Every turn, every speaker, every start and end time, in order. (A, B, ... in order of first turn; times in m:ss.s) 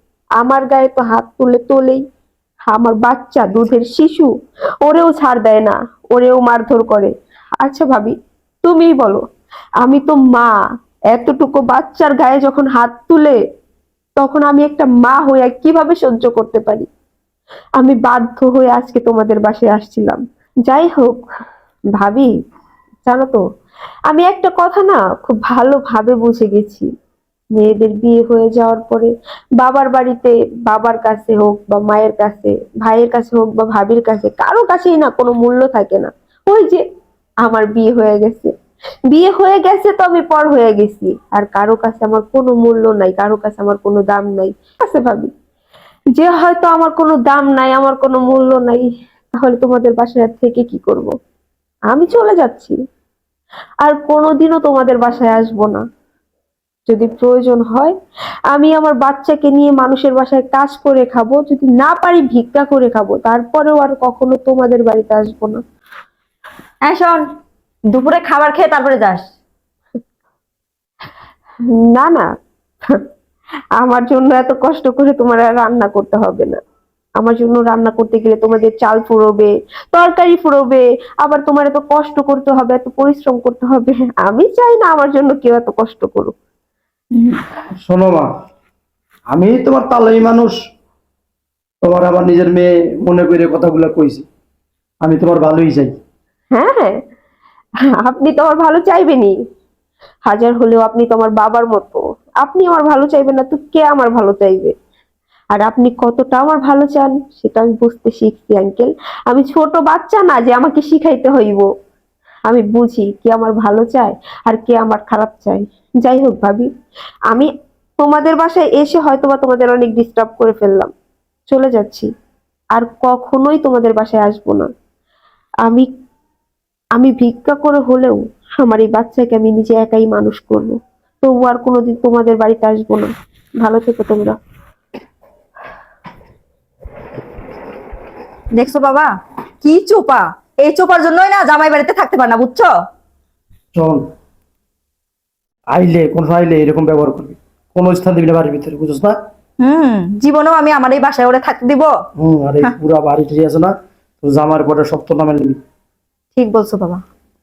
0:00.4-0:02.0 A
0:02.7-0:04.3 A
0:04.8-0:09.2 A
0:09.8-0:10.5 A
0:11.1-0:13.4 A
0:14.2-0:16.9 A
0:17.8-0:21.2 A
0:22.0-0:22.3 A
0:23.0-0:23.4 A
0:24.1-0:26.9 A
0:27.5-0:36.8 A
0:37.4-0:38.5 A
0:39.1-0:45.3 A
0:46.1-0:51.1 A
0:51.9-0:52.8 A
0:53.8-0:55.8 A
0:56.9-0:57.9 A
0:58.5-1:05.6 A
1:06.8-1:07.2 B
1:07.9-1:09.2 B
1:11.7-1:12.3 A
1:13.8-1:16.6 A
1:17.2-1:26.3 A
1:27.8-1:28.3 C
1:29.3-1:30.5 C
1:31.8-1:34.2 C
1:35.0-1:36.0 C
1:36.5-1:37.0 A
1:38.0-1:39.3 A
1:40.2-1:44.7 A
1:45.5-1:51.6 A
1:52.5-1:56.7 A
1:57.3-2:00.9 A
2:01.5-2:02.1 A
2:02.7-2:04.7 A
2:07.0-2:13.1 A
2:13.6-2:14.3 A
2:18.5-2:19.1 B
2:19.6-2:22.7 B
2:23.7-2:24.0 C
2:25.7-2:29.2 C
2:29.6-2:31.9 B
2:32.2-2:35.6 C
2:36.3-2:37.0 B